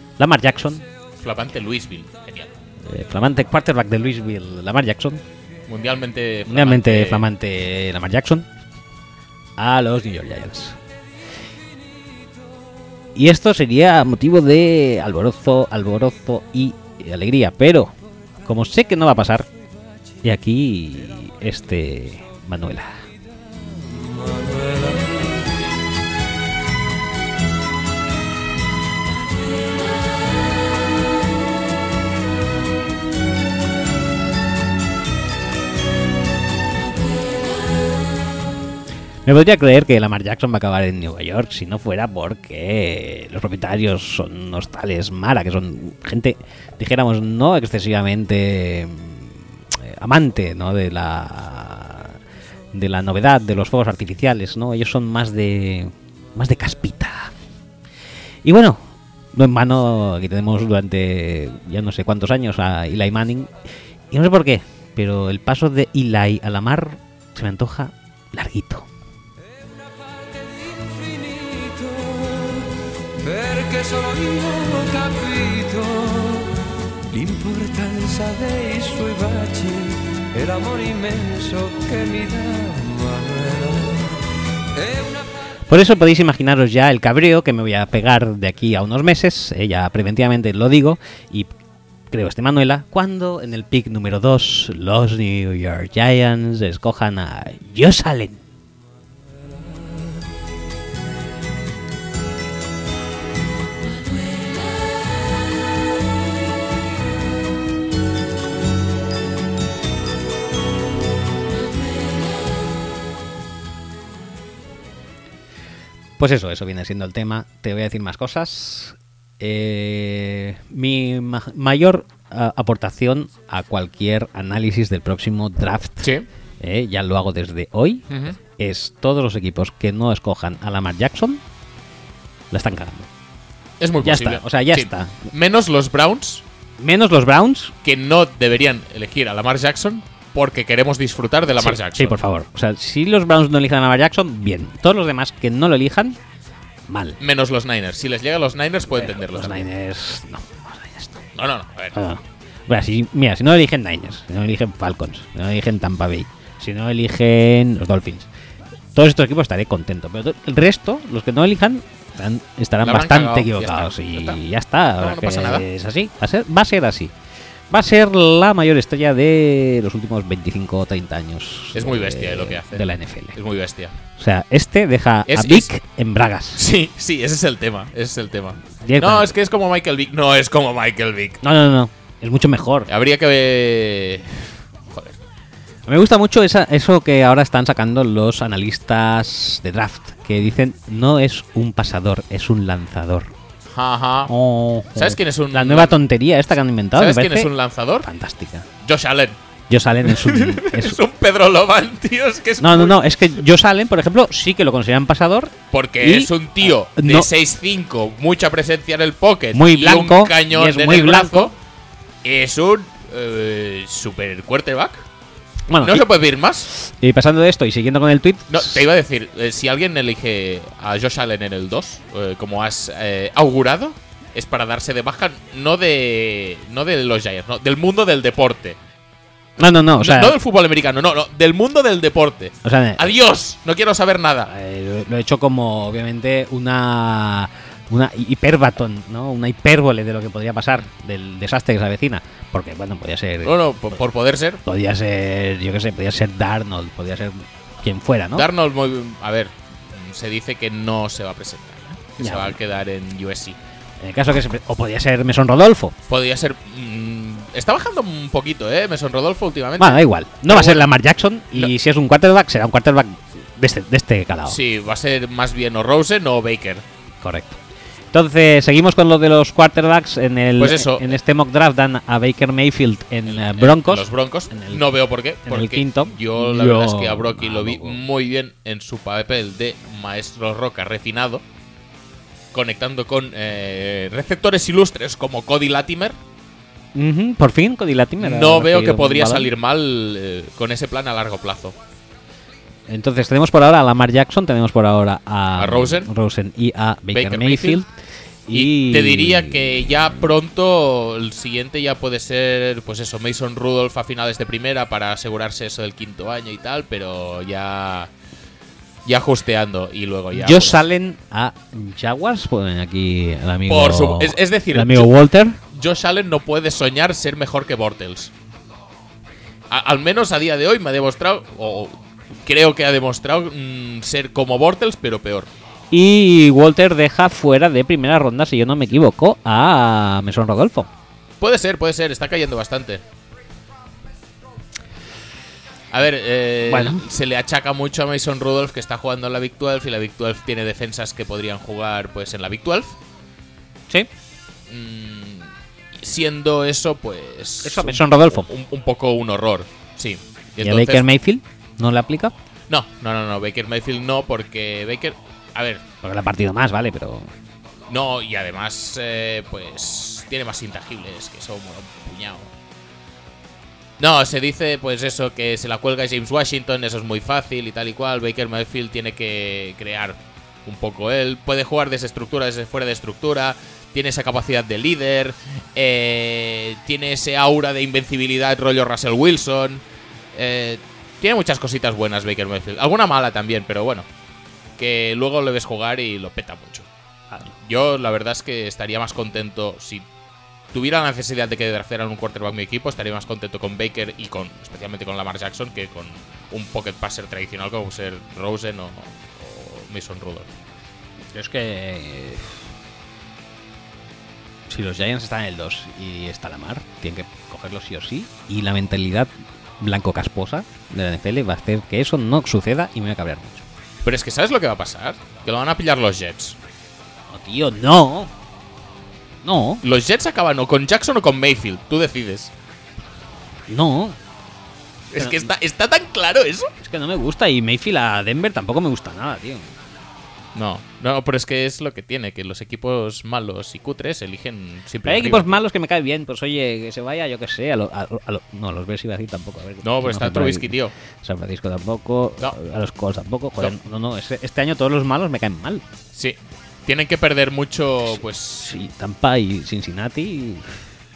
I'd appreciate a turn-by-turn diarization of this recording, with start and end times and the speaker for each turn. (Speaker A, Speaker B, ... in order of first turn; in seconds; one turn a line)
Speaker A: 0.2-0.8
Speaker B: 1.2-2.5
Speaker A: 2.8-5.2
Speaker B: 5.7-7.3
Speaker A: 6.5-8.5
Speaker A: 9.6-10.8
Speaker A: 13.2-19.5
Speaker A: 20.2-23.0
Speaker A: 39.2-52.2
Speaker A: 52.7-57.3
Speaker A: 58.4-63.5
Speaker A: 64.1-68.9
Speaker C: 70.3-76.5
Speaker C: 77.1-84.2
Speaker C: 84.7-85.3
Speaker A: 85.7-91.5
Speaker A: 92.1-98.4
Speaker A: 116.2-131.4
Speaker B: 128.1-128.4
Speaker A: 132.5-133.1
Speaker B: 133.8-136.4
Speaker A: 134.0-135.3
Speaker A: 136.8-137.7
Speaker B: 137.8-142.2
Speaker A: 141.6-146.2
Speaker A: 146.9-147.2
Speaker B: 147.2-149.7
Speaker A: 148.9-151.2
Speaker B: 151.3-151.9
Speaker A: 151.9-158.3
Speaker A: 158.9-167.1
Speaker B: 162.8-164.4
Speaker B: 165.0-165.7
Speaker A: 167.7-173.3
Speaker B: 171.7-173.9
Speaker A: 174.2-176.6
Speaker B: 175.3-175.7
Speaker B: 176.6-181.4
Speaker A: 178.8-179.3
Speaker A: 181.4-182.9
Speaker B: 182.9-185.2
Speaker A: 185.9-193.3
Speaker B: 193.7-194.3
Speaker A: 194.3-197.5
Speaker B: 194.9-196.0
Speaker B: 196.9-198.1
Speaker A: 198.0-198.7
Speaker B: 198.8-199.4
Speaker A: 199.7-201.0
Speaker B: 200.0-203.1
Speaker A: 202.6-207.3
Speaker B: 205.7-211.5
Speaker A: 209.5-211.5
Speaker B: 212.2-215.1
Speaker A: 215.7-216.1
Speaker B: 215.8-216.7
Speaker A: 216.7-218.8
Speaker B: 218.5-228.8
Speaker A: 229.6-230.4
Speaker B: 230.0-234.5
Speaker A: 232.6-233.1
Speaker A: 234.5-243.6
Speaker B: 243.4-244.6
Speaker A: 244.6-248.5
Speaker B: 248.3-253.6
Speaker A: 252.2-252.6
Speaker A: 254.0-255.9
Speaker B: 256.1-260.9
Speaker A: 259.8-264.6
Speaker B: 264.4-266.9
Speaker A: 267.2-267.6
Speaker A: 268.1-274.9
Speaker B: 270.6-271.1
Speaker B: 273.3-281.4
Speaker A: 275.4-278.0
Speaker B: 282.5-286.2
Speaker A: 286.9-289.5
Speaker B: 288.2-291.8
Speaker A: 292.9-297.9
Speaker B: 295.6-296.1
Speaker B: 297.1-297.8
Speaker A: 298.5-300.1
Speaker B: 298.5-308.1
Speaker B: 309.1-310.8
Speaker A: 310.3-315.6
Speaker B: 313.7-315.1
Speaker B: 315.7-318.3
Speaker B: 319.7-325.5
Speaker A: 325.9-330.9
Speaker B: 331.4-333.0
Speaker B: 335.9-342.9
Speaker A: 336.7-337.0
Speaker B: 344.7-351.1
Speaker A: 347.6-348.5
Speaker A: 350.6-352.3
Speaker B: 352.7-355.8
Speaker A: 356.0-357.3
Speaker B: 357.9-362.5
Speaker B: 364.0-379.8
Speaker B: 380.3-384.1
Speaker B: 384.8-386.9
Speaker B: 387.5-390.1
Speaker B: 390.7-400.5
Speaker A: 401.3-402.6
Speaker A: 404.7-413.6
Speaker B: 414.0-416.6
Speaker A: 417.3-418.3
Speaker A: 419.4-419.8
Speaker B: 419.8-422.5
Speaker A: 423.7-424.2
Speaker B: 425.1-426.7
Speaker A: 425.2-425.5
Speaker A: 426.8-429.7
Speaker B: 430.6-435.6
Speaker A: 435.1-445.8
Speaker B: 439.8-440.9
Speaker B: 446.1-448.8
Speaker A: 448.6-450.8